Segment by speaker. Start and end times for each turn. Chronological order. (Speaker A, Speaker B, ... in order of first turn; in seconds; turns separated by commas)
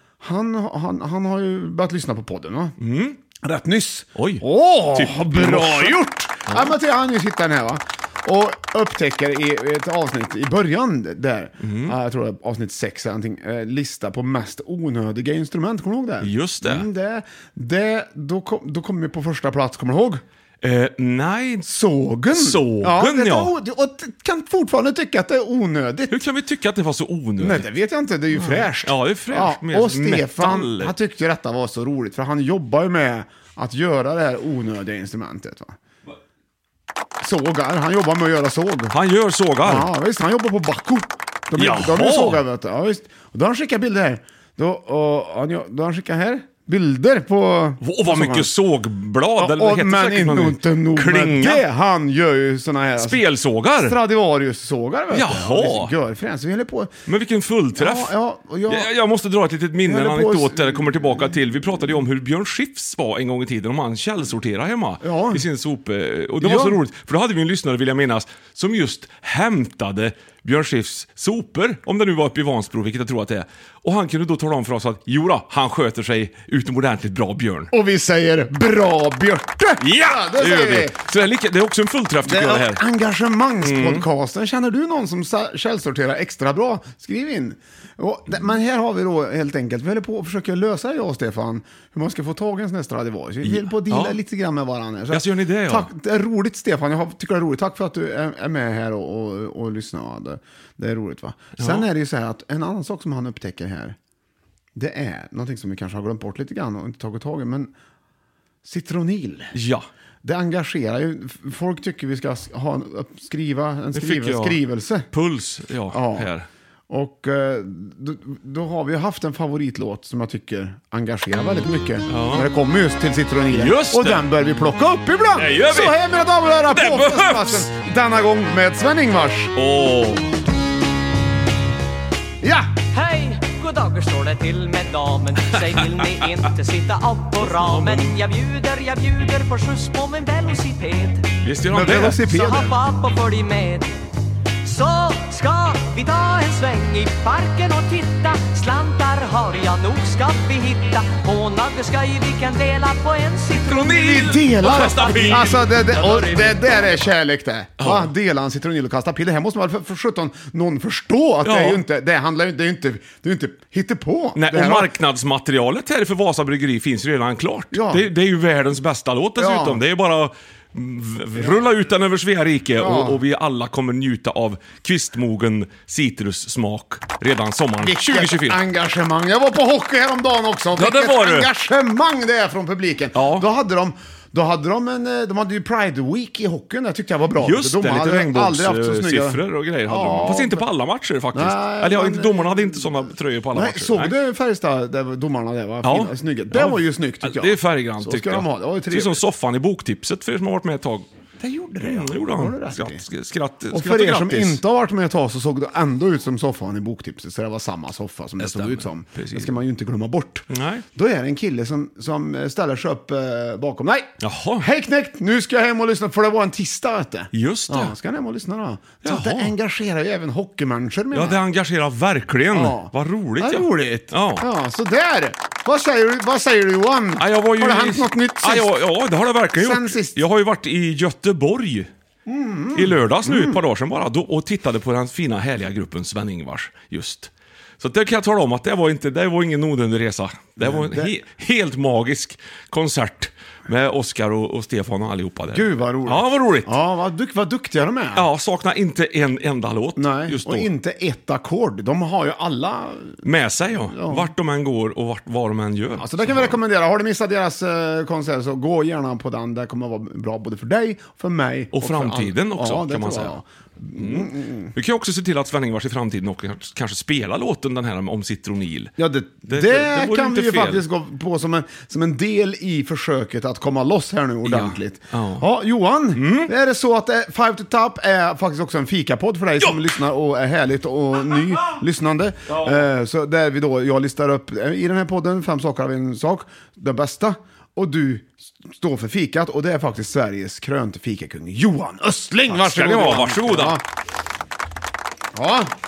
Speaker A: 0.2-2.8, Speaker B: 2.8-3.2, Speaker A: 3.4-20.2, Speaker B: 4.2-6.7, Speaker B: 11.6-12.0, Speaker B: 16.2-16.9, Speaker B: 20.6-21.7, Speaker A: 21.6-26.2, Speaker B: 22.3-23.5, Speaker B: 26.1-27.7, Speaker A: 27.4-35.8, Speaker B: 28.3-30.9, Speaker A: 37.2-38.9, Speaker B: 38.9-39.9, Speaker A: 39.6-48.5, Speaker B: 41.5-42.4, Speaker B: 47.8-51.6, Speaker A: 49.4-53.2, Speaker B: 53.0-54.0, Speaker A: 53.8-56.9, Speaker B: 55.1-55.9, Speaker B: 57.1-58.1, Speaker A: 57.8-58.9, Speaker B: 58.7-77.7, Speaker A: 59.8-61.1, Speaker A: 65.0-65.4, Speaker A: 66.4-66.8, Speaker A: 77.7-80.9, Speaker B: 79.8-82.8, Speaker A: 82.2-104.0, Speaker B: 83.6-84.0, Speaker B: 93.4-94.2, Speaker B: 95.1-95.9, Speaker B: 101.6-101.8, Speaker A: 104.7-107.7, Speaker A: 108.6-109.5, Speaker B: 109.5-109.9, Speaker A: 110.2-115.1, Speaker B: 113.9-116.5, Speaker A: 115.9-116.3, Speaker A: 116.9-129.6, Speaker B: 122.1-122.5, Speaker B: 123.5-124.3, Speaker B: 125.3-126.0, Speaker B: 126.7-127.7, Speaker B: 129.6-130.3, Speaker A: 132.4-132.7, Speaker C: 132.9-141.3, Speaker B: 135.5-135.8, Speaker B: 137.4-138.1, Speaker B: 141.4-142.3, Speaker A: 141.7-142.8, Speaker C: 142.2-143.9, Speaker C: 144.6-157.1, Speaker B: 153.5-155.6, Speaker A: 153.9-164.9, Speaker B: 157.8-158.1, Speaker B: 161.4-161.8, Speaker B: 164.3-178.6, Speaker A: 167.7-168.1, Speaker A: 169.4-169.8, Speaker A: 172.8-173.2, Speaker A: 177.8-190.6, Speaker B: 180.8-181.5, Speaker B: 183.1-183.4, Speaker B: 187.4-194.1, Speaker A: 191.3-199.2, Speaker B: 195.8-201.1, Speaker A: 201.4-203.0, Speaker B: 201.8-204.6, Speaker A: 203.7-221.4, Speaker B: 208.4-209.6, Speaker B: 210.5-210.8, Speaker B: 214.2-214.7, Speaker B: 217.3-217.9, Speaker B: 219.0-219.5, Speaker B: 221.1-224.4, Speaker A: 222.5-228.8, Speaker B: 227.2-231.9, Speaker A: 229.6-230.2, Speaker A: 232.2-233.6, Speaker B: 232.7-246.8, Speaker A: 240.6-241.1, Speaker A: 245.5-248.3, Speaker B: 248.1-250.7, Speaker A: 250.0-253.2, Speaker B: 253.2-256.6, Speaker A: 253.9-254.3, Speaker A: 256.0-264.7, Speaker B: 261.7-263.4, Speaker B: 263.9-268.9, Speaker A: 269.0-293.8, Speaker B: 269.5-270.8, Speaker B: 274.4-275.5, Speaker B: 276.1-276.5, Speaker B: 282.5-282.9, Speaker B: 292.5-293.8, Speaker A: 295.3-295.7